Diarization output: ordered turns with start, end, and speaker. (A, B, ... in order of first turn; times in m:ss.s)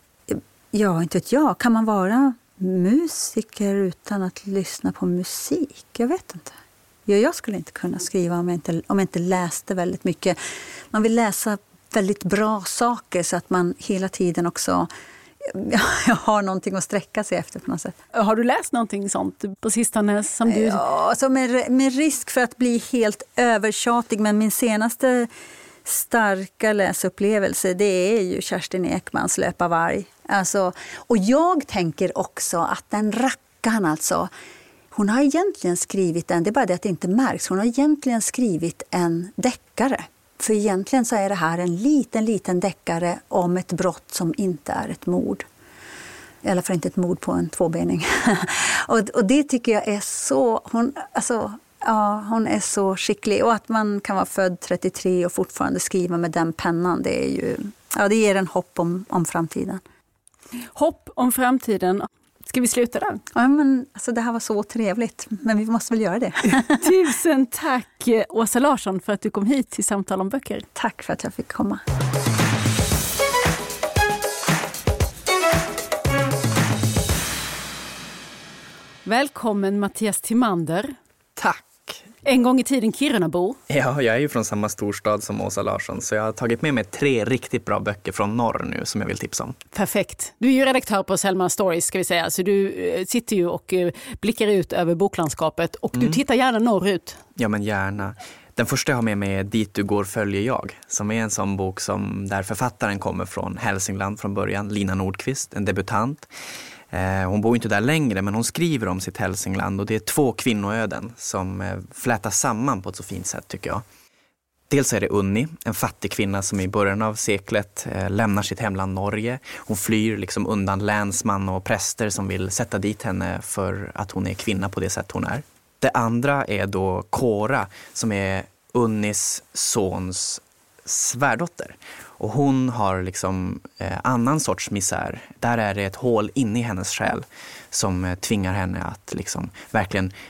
0:00.3-0:10.4 A
0:10.9-0:14.9 A
0:15.4-0:17.9 A
0:18.1-0:20.8 B
0:20.5-0:25.3 A
0:25.8-0:34.3 A
0:34.9-0:45.4 A
0:46.4-0:59.8 A
1:00.7-1:03.2 B
1:03.3-1:06.9 A
1:06.8-1:10.7 B
1:10.7-1:11.8 A
1:19.0-1:21.0 B
1:21.4-1:22.0 C
1:22.2-1:23.6 B
1:23.7-1:29.6 C
1:29.7-1:37.2 B
1:35.9-1:36.2 C
1:37.4-1:46.3 C
1:46.9-1:53.8 C
1:54.7-2:20.1 C